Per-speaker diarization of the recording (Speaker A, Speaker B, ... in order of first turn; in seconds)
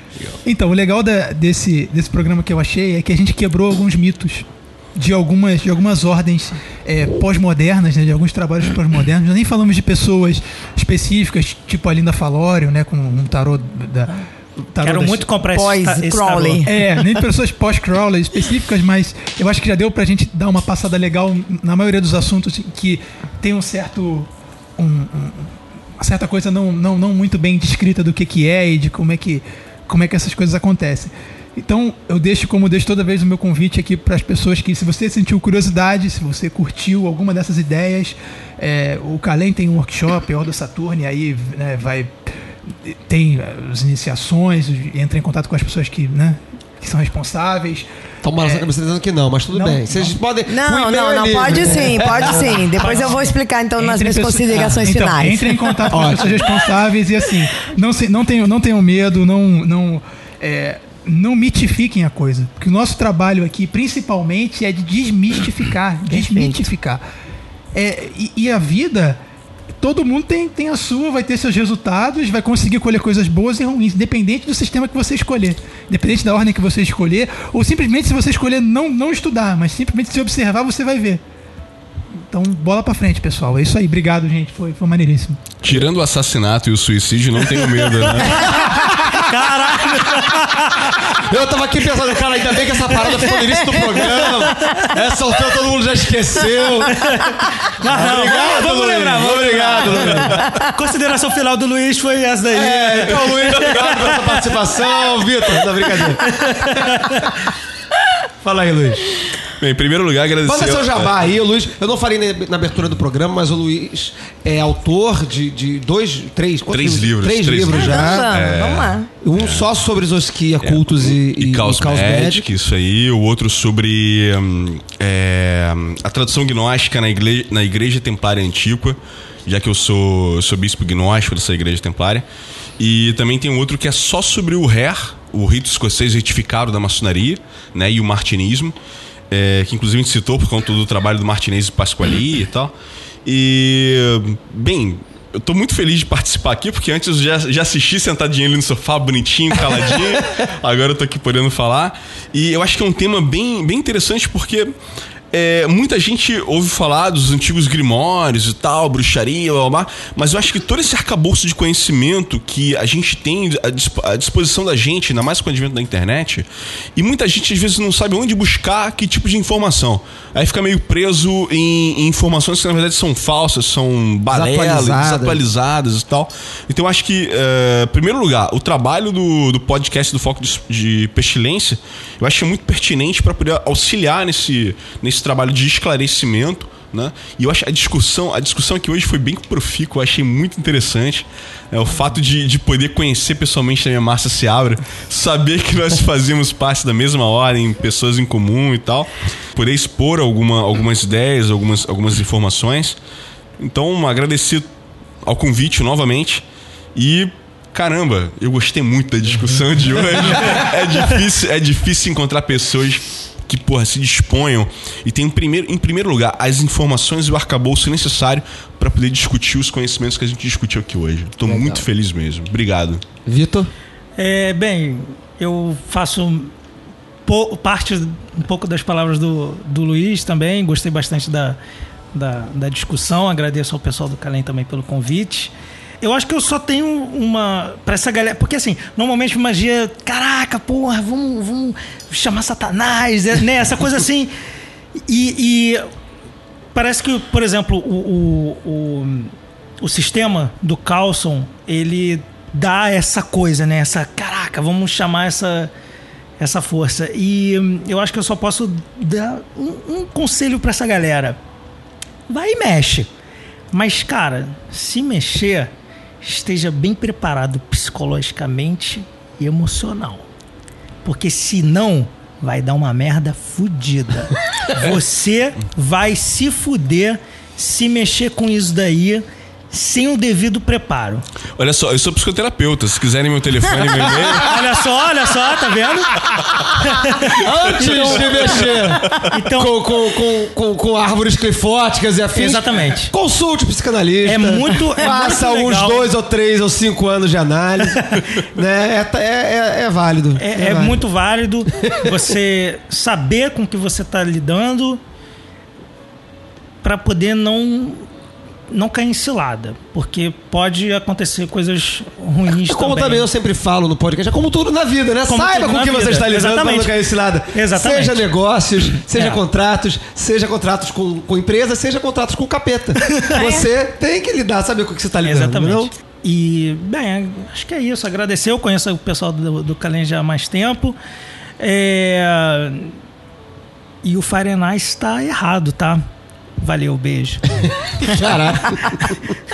Speaker A: 0.4-15.3, 16.6-47.9, 48.4-48.7, 49.5-50.2, 52.8-53.1, 53.8-67.0, 67.7-69.2, 69.8-81.2, 82.3-85.4, 88.6-89.0
Speaker B: 14.8-16.6, 52.8-53.3, 87.8-91.0, 92.8-95.0, 96.8-104.7, 105.9-107.2, 224.2-226.5, 227.2-231.6, 232.1-244.3, 245.1-245.8, 246.7-255.7, 256.4-261.4, 262.3-263.1, 263.7-270.2, 271.0-281.3, 284.4-286.1, 286.8-289.9, 292.3-293.1, 294.2-296.1, 298.0-298.2, 300.4-305.0, 306.8-308.1, 308.7-313.3, 315.3-317.0, 317.5-318.3, 319.1-319.4, 323.0-323.7, 325.2-331.0, 331.6-332.9, 334.0-336.0, 336.6-337.7
Speaker C: 15.5-16.7, 50.5-56.2, 66.1-66.6, 117.7-119.1
Speaker D: 48.2-53.0, 54.5-54.8, 55.9-56.5, 89.9-90.2, 91.2-97.2, 97.8-100.5, 102.5-106.7, 108.4-109.2, 110.5-118.3, 119.2-122.5, 174.3-175.4, 221.4-221.9, 223.3-223.7, 287.4-301.0, 301.8-302.1, 312.5-325.9, 338.0-339.2
Speaker E: 85.6-88.5, 100.0-100.5, 103.1-103.9, 109.6-111.1, 116.7-119.7, 120.6-132.2, 132.8-138.8, 139.3-142.7, 143.2-154.7, 155.3-203.0, 203.6-204.7, 205.2-223.0, 281.6-284.5, 287.6-289.2